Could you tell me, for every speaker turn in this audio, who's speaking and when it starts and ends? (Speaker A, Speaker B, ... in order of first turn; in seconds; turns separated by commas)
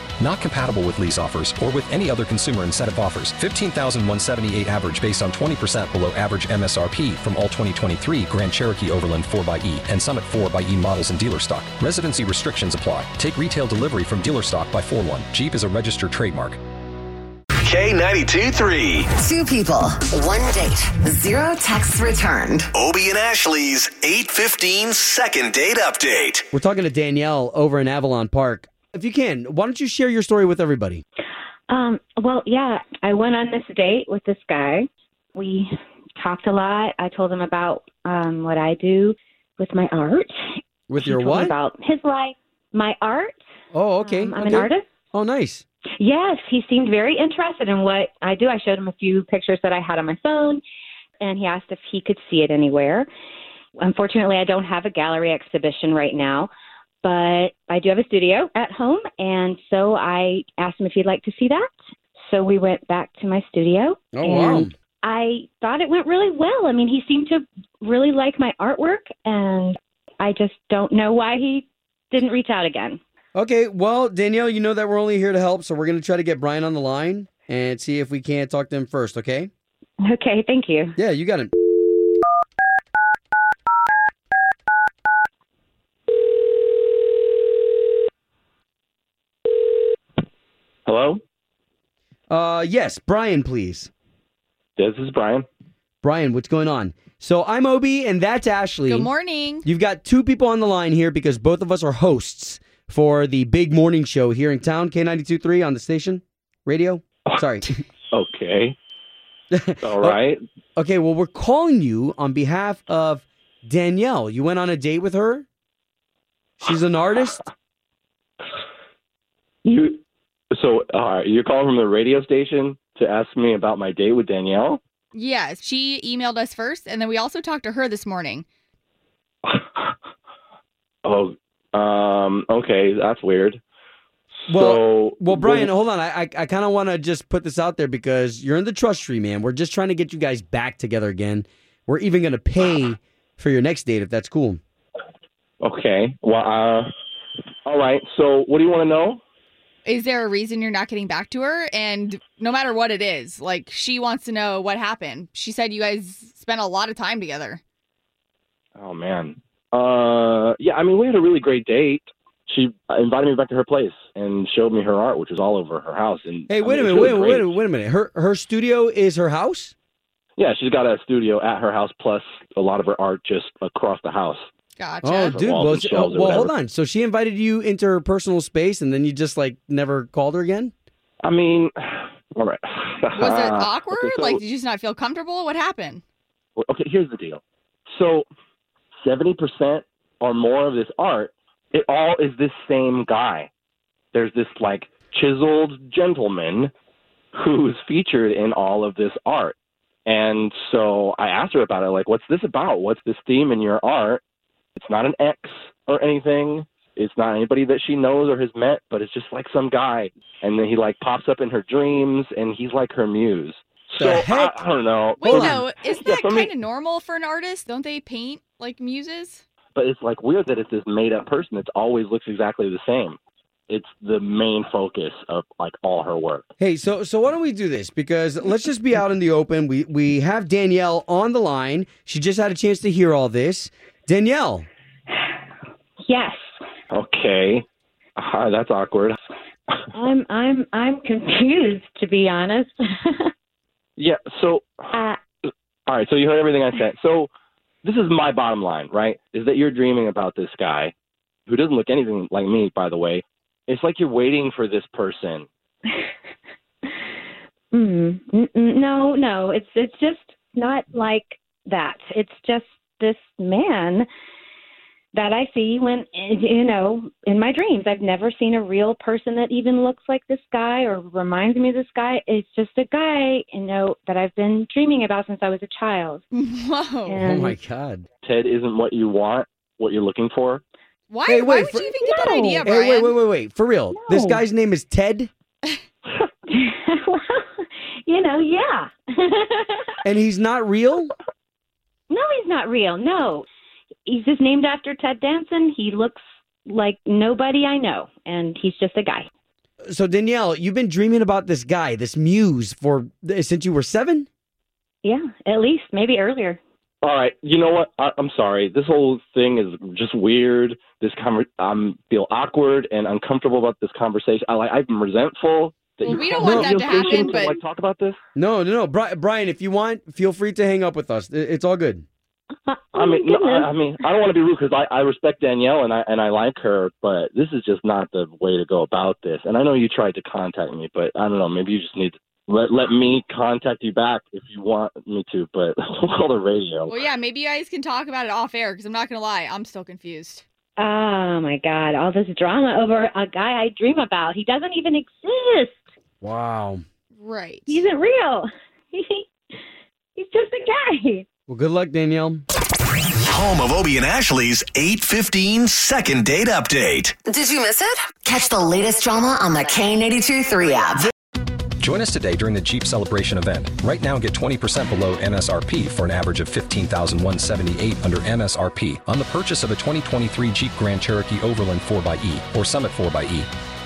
Speaker A: 0.2-16.6, Speaker B: 17.6-19.1, Speaker C: 19.1-22.7, Speaker B: 22.8-26.5, Speaker D: 26.5-31.0, Speaker E: 31.7-40.3, Speaker D: 40.9-41.5, Speaker E: 41.0-43.4, Speaker D: 43.7-45.6, Speaker E: 44.0-44.8, Speaker E: 46.0-50.6, Speaker E: 51.2-53.1, Speaker E: 53.8-56.5, Speaker E: 57.0-61.7, Speaker E: 62.3-73.0, Speaker D: 64.1-64.7, Speaker D: 73.3-79.5, Speaker E: 80.0-81.0, Speaker D: 81.0-81.5, Speaker F: 90.9-91.2, Speaker D: 92.3-93.9, Speaker F: 94.8-95.5, Speaker D: 96.0-99.1, Speaker G: 98.9-99.7, Speaker D: 99.6-107.7, Speaker F: 108.1-108.8, Speaker D: 109.5-110.2, Speaker F: 109.8-110.4, Speaker D: 110.8-115.5, Speaker D: 116.6-117.5, Speaker F: 119.6-120.0, Speaker F: 120.5-124.8, Speaker G: 125.1-128.4, Speaker F: 129.5-129.9, Speaker F: 131.0-133.6, Speaker F: 134.5-135.7, Speaker D: 134.5-144.6, Speaker F: 145.6-146.9, Speaker F: 147.7-149.2, Speaker G: 149.8-157.6, Speaker F: 158.8-167.5, Speaker D: 166.5-169.7, Speaker F: 170.4-174.5, Speaker G: 174.8-175.4, Speaker D: 175.0-180.7, Speaker F: 175.2-176.5, Speaker F: 181.2-184.4, Speaker G: 183.2-186.0, Speaker F: 186.6-188.3, Speaker F: 189.0-193.5, Speaker F: 194.1-196.7, Speaker F: 197.3-204.2, Speaker F: 204.8-216.5, Speaker D: 214.0-214.6, Speaker G: 215.2-219.4, Speaker D: 215.3-215.6, Speaker F: 219.7-223.2, Speaker F: 223.7-226.4, Speaker D: 226.6-234.7, Speaker E: 236.1-236.4, Speaker F: 236.9-237.7, Speaker F: 238.2-239.2, Speaker E: 239.9-243.3, Speaker F: 244.0-244.8, Speaker F: 245.9-247.3, Speaker F: 247.8-250.9, Speaker F: 251.5-255.5, Speaker E: 257.7-264.1, Speaker E: 265.1-276.2, Speaker G: 276.3-277.2, Speaker E: 277.1-277.6, Speaker D: 277.1-278.1, Speaker F: 278.2-280.6, Speaker G: 281.1-283.1, Speaker D: 281.3-281.9, Speaker E: 281.9-282.6, Speaker D: 282.6-285.3, Speaker E: 283.9-284.4, Speaker E: 286.5-289.9, Speaker D: 290.0-291.1, Speaker E: 292.1-293.5, Speaker E: 294.1-299.3, Speaker D: 299.9-304.3, Speaker E: 305.0-306.6, Speaker F: 307.0-318.2, Speaker G: 316.0-317.6, Speaker D: 316.4-316.8, Speaker E: 316.8-317.4, Speaker D: 318.4-322.1, Speaker E: 322.7-323.7, Speaker F: 323.0-337.0, Speaker G: 336.9-340.4, Speaker E: 340.8-345.8, Speaker D: 346.2-346.8, Speaker G: 347.2-347.8, Speaker E: 347.7-349.6, Speaker E: 350.2-351.2, Speaker D: 351.5-352.4, Speaker B: 353.2-357.2, Speaker C: 357.2-361.1, Speaker A: 361.8-373.5